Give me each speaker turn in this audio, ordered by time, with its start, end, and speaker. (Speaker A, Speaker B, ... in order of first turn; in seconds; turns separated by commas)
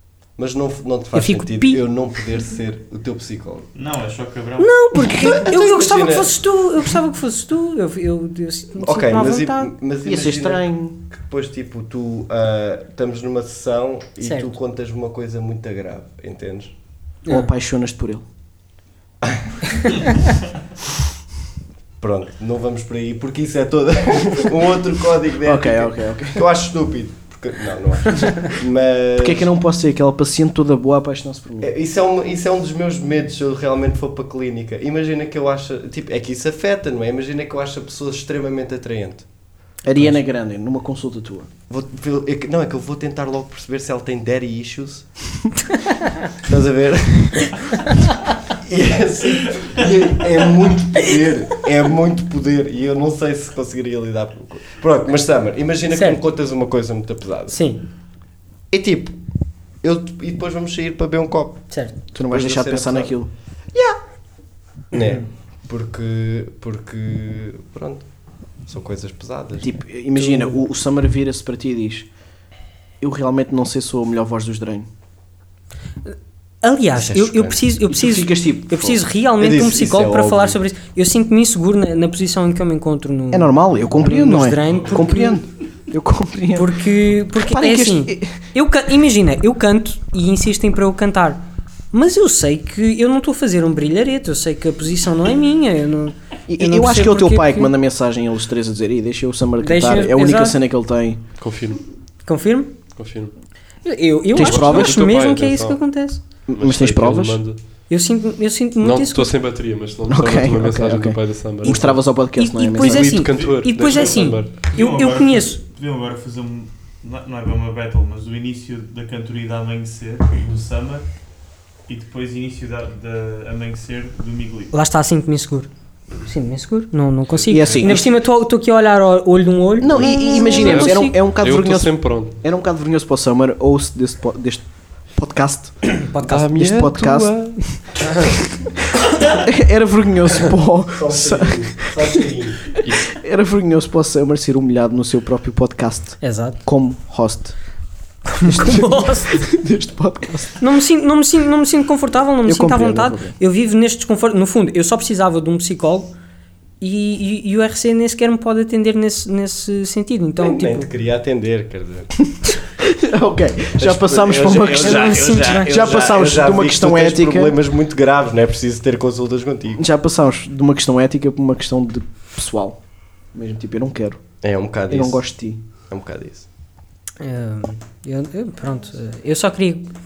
Speaker A: 0.4-3.7, Speaker B: 1.1-1.8, Speaker C: 3.7-4.7, Speaker B: 4.6-9.7, Speaker A: 5.0-6.3, Speaker A: 8.8-16.7, Speaker D: 10.0-11.0, Speaker B: 14.2-14.5, Speaker D: 17.3-18.2, Speaker A: 19.2-19.6, Speaker A: 22.0-29.5, Speaker D: 25.4-26.4, Speaker D: 29.2-31.7, Speaker A: 31.6-39.2, Speaker D: 39.8-41.5, Speaker A: 41.7-45.5, Speaker A: 46.4-47.5, Speaker A: 48.6-57.6, Speaker B: 55.9-56.2, Speaker B: 57.5-57.8, Speaker A: 58.7-59.1, Speaker A: 59.8-63.1, Speaker B: 61.7-62.0, Speaker D: 62.1-63.3, Speaker A: 64.9-68.1, Speaker A: 68.7-69.8, Speaker D: 69.6-72.1, Speaker B: 70.2-70.5, Speaker D: 73.0-74.9, Speaker B: 76.6-85.4, Speaker A: 76.9-77.6, Speaker D: 77.9-79.0, Speaker A: 79.4-80.6, Speaker D: 83.3-86.8, Speaker B: 86.5-97.7, Speaker D: 87.4-88.4, Speaker D: 96.5-101.2, Speaker B: 99.6-100.6, Speaker E: 101.4-101.8, Speaker B: 102.2-102.8, Speaker E: 102.9-103.3, Speaker B: 103.8-106.2, Speaker D: 104.3-105.0, Speaker E: 104.3-105.8, Speaker D: 106.5-107.4, Speaker E: 106.5-107.8, Speaker B: 107.9-109.3, Speaker E: 108.8-112.2, Speaker D: 110.1-113.2, Speaker B: 112.3-115.6, Speaker E: 112.8-114.6, Speaker C: 113.4-114.0, Speaker C: 114.7-121.1, Speaker C: 121.8-124.7, Speaker B: 124.7-125.7, Speaker B: 126.2-131.2, Speaker E: 127.3-128.0, Speaker D: 127.5-128.1, Speaker D: 129.8-138.7, Speaker E: 130.4-132.4, Speaker B: 136.0-136.7, Speaker E: 136.3-137.6, Speaker D: 139.2-147.6, Speaker A: 140.9-142.7, Speaker B: 146.2-146.6, Speaker B: 148.2-149.4, Speaker D: 148.4-150.6, Speaker B: 150.6-156.1, Speaker D: 152.4-153.3, Speaker B: 156.8-160.9, Speaker A: 160.4-162.2, Speaker D: 162.8-167.5, Speaker A: 163.8-169.8, Speaker C: 164.5-166.1, Speaker B: 164.7-165.9, Speaker D: 169.8-174.2, Speaker A: 174.4-175.2, Speaker D: 174.9-175.6, Speaker A: 175.9-176.4, Speaker B: 177.2-179.9